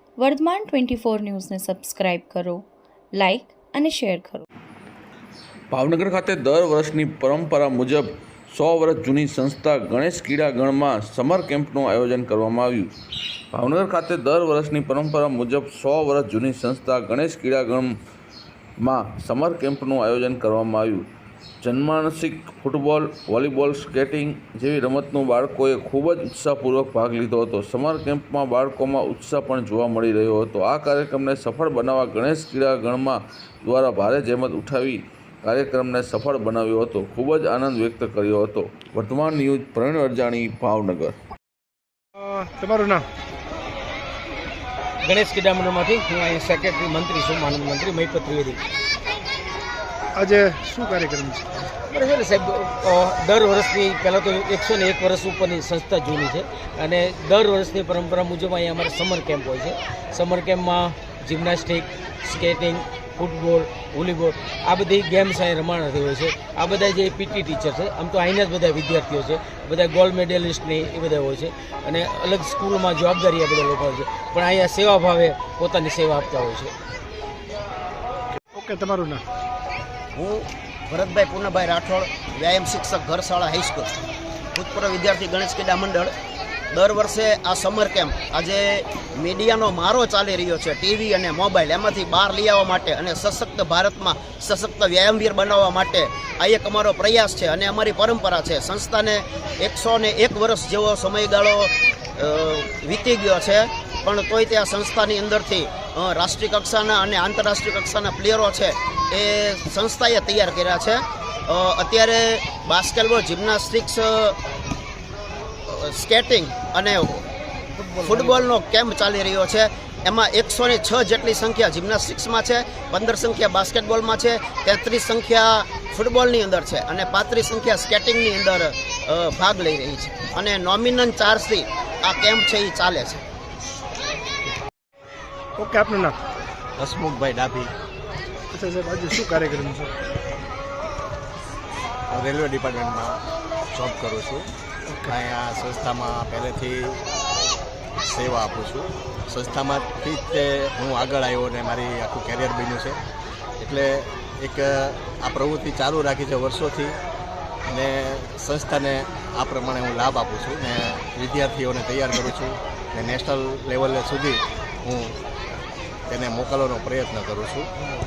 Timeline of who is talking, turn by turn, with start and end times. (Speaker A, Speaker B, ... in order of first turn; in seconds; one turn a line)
Speaker A: 0.2-4.5
Speaker B: 5.7-12.9
Speaker B: 13.5-17.9
Speaker B: 18.8-21.1
Speaker B: 21.6-41.1
Speaker C: 42.1-43.0
Speaker D: 45.0-48.6
Speaker C: 50.1-51.5
Speaker D: 51.9-76.7
Speaker C: 78.5-79.2
Speaker E: 80.1-83.9
Speaker E: 84.5-86.1
Speaker E: 86.7-114.4
Speaker E: 115.7-117.2
Speaker D: 117.8-118.5
Speaker E: 118.0-133.2
Speaker C: 135.6-136.2
Speaker F: 136.8-137.7
Speaker C: 138.5-139.9
Speaker F: 142.1-143.2
Speaker F: 143.7-144.5
Speaker C: 144.9-145.1
Speaker F: 145.0-147.0
Speaker F: 148.0-153.0
Speaker F: 153.6-157.0
Speaker F: 157.7-165.2
Speaker F: 166.1-167.7